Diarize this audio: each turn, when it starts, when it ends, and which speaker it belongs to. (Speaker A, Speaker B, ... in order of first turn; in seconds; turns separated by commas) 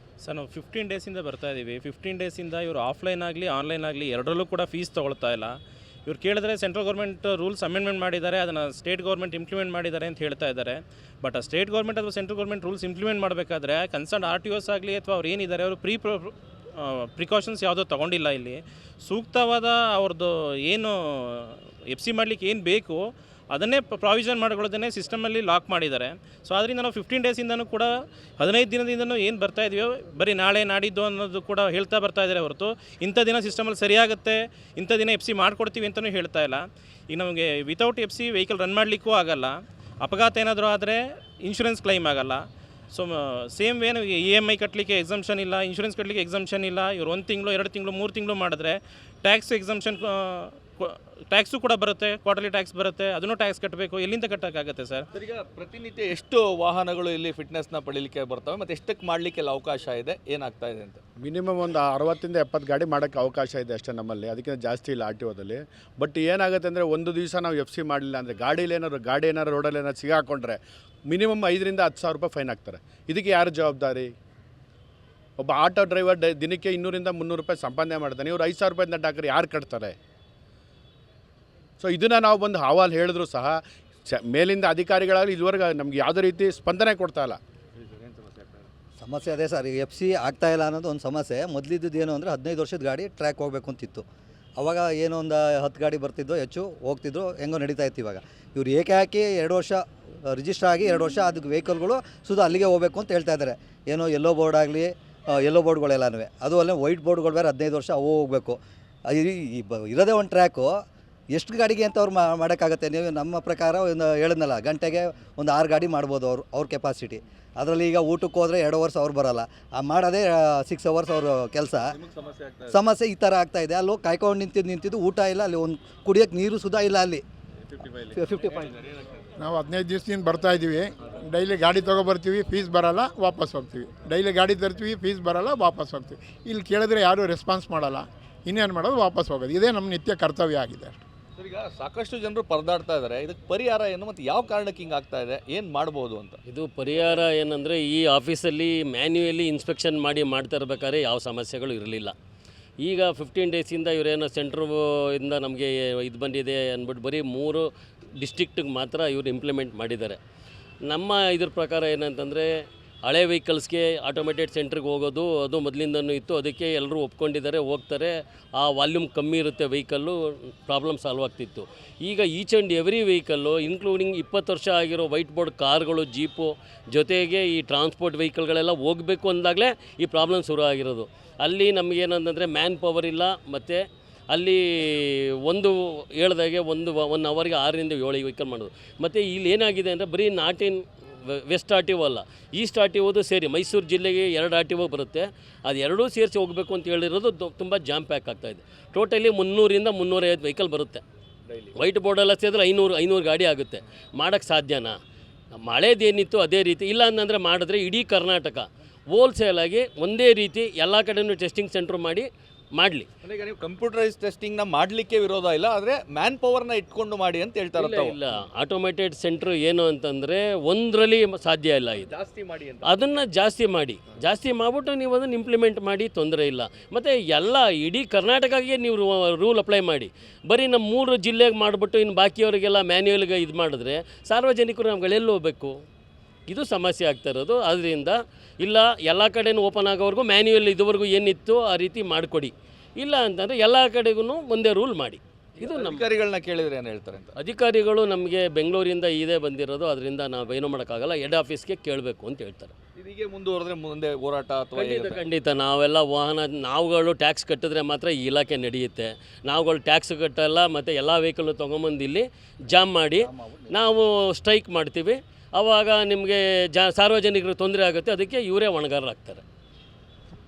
Speaker A: 0.2-5.5, Speaker A: 6.0-55.0, Speaker B: 55.1-61.0, Speaker C: 61.2-74.1, Speaker C: 75.4-79.9, Speaker C: 81.8-87.4, Speaker B: 87.8-88.6, Speaker D: 89.0-94.0, Speaker D: 94.6-108.6, Speaker D: 109.1-110.8, Speaker D: 111.3-121.9, Speaker B: 122.0-122.7, Speaker D: 122.7-127.2, Speaker B: 127.7-129.3, Speaker D: 128.1-128.7, Speaker E: 129.4-141.0, Speaker B: 141.4-146.4, Speaker F: 146.4-152.1, Speaker F: 152.8-157.7, Speaker F: 158.2-160.2, Speaker F: 160.9-162.5, Speaker F: 163.0-201.0, Speaker F: 201.8-204.9, Speaker F: 205.6-213.1, Speaker B: 213.2-218.2, Speaker F: 217.8-222.1, Speaker B: 221.9-222.9, Speaker F: 222.8-235.8, Speaker F: 236.5-246.0, Speaker B: 245.6-247.3, Speaker F: 247.3-252.7, Speaker B: 253.0-255.2, Speaker F: 254.8-269.4, Speaker D: 263.2-263.8